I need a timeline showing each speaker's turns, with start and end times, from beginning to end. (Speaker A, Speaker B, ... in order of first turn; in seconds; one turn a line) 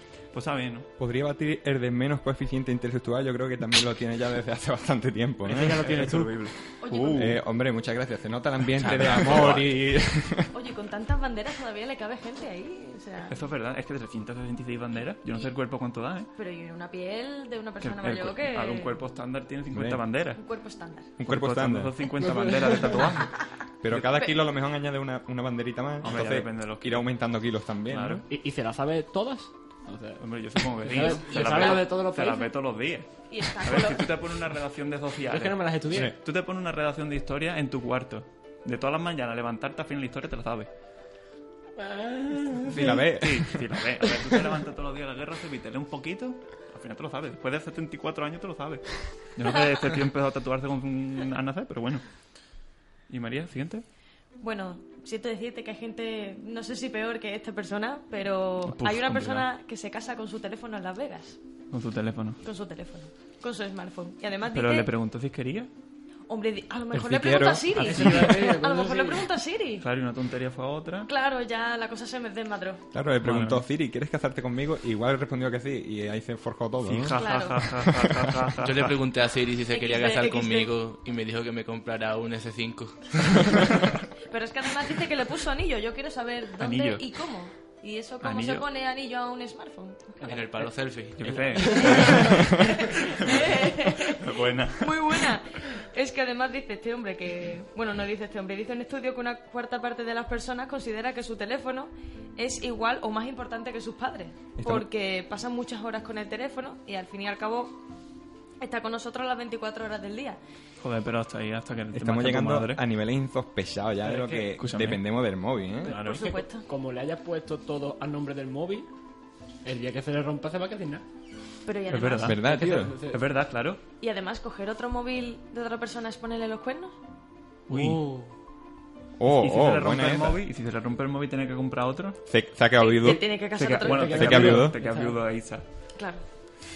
Speaker A: 0.3-0.9
Speaker B: 1.0-5.9
Speaker C: 5.5-6.5
Speaker A: 5.8-7.4
Speaker D: 6.8-7.3
Speaker B: 7.2-10.5
Speaker A: 8.9-9.6
Speaker D: 10.5-13.4
Speaker A: 13.3-16.3
Speaker D: 16.4-18.9
Speaker A: 17.8-20.4
Speaker B: 19.7-20.0
Speaker D: 20.4-21.1
Speaker B: 21.2-22.0
Speaker A: 21.2-23.3
Speaker C: 22.2-23.1
Speaker B: 23.8-28.2
Speaker A: 26.0-27.1
Speaker A: 27.9-28.2
Speaker C: 28.3-30.2
Speaker A: 30.2-40.7
Speaker C: 30.8-32.5
Speaker D: 31.5-31.8
Speaker D: 33.3-34.1
Speaker C: 35.3-36.1
Speaker B: 35.9-36.2
Speaker C: 41.8-43.0
Speaker B: 42.7-43.7
Speaker A: 42.9-52.0
Speaker A: 53.1-53.9
Speaker D: 54.4-61.4
Speaker A: 58.6-59.5
Speaker A: 61.7-62.4
Speaker D: 62.4-64.9
Speaker A: 64.5-65.7
Speaker D: 66.3-69.8
Speaker B: 66.9-68.4
Speaker C: 67.8-69.3
Speaker A: 69.8-71.1
Speaker D: 71.1-72.8
Speaker B: 72.9-77.2
Speaker A: 73.2-73.6
Speaker A: 76.8-79.0
Speaker D: 77.1-77.6
Speaker E: 78.6-83.2
Speaker D: 79.7-80.7
Speaker D: 84.3-90.3
Speaker A: 86.6-87.0
Speaker A: 88.2-88.7
Speaker E: 90.3-91.3
Speaker A: 91.2-92.4
Speaker C: 91.4-92.2
Speaker D: 91.6-107.8
Speaker A: 94.1-95.3
Speaker B: 104.6-104.9
Speaker D: 108.6-110.4
Speaker A: 110.8-112.8
Speaker B: 111.9-115.9
Speaker A: 114.1-115.0
Speaker C: 115.8-118.9
Speaker A: 115.9-116.3
Speaker D: 116.0-116.7
Speaker C: 119.6-121.0
Speaker D: 121.7-122.4
Speaker A: 121.9-122.4
Speaker B: 122.2-123.0
Speaker C: 122.4-123.2
Speaker A: 123.1-123.8
Speaker D: 124.0-127.0
Speaker A: 127.7-128.1
Speaker C: 127.7-128.3
Speaker B: 129.2-130.4
Speaker A: 129.3-132.2
Speaker B: 132.3-133.2
Speaker D: 132.8-134.6
Speaker A: 133.6-135.6
Speaker C: 133.8-135.2
Speaker B: 134.1-134.8
Speaker D: 136.0-136.2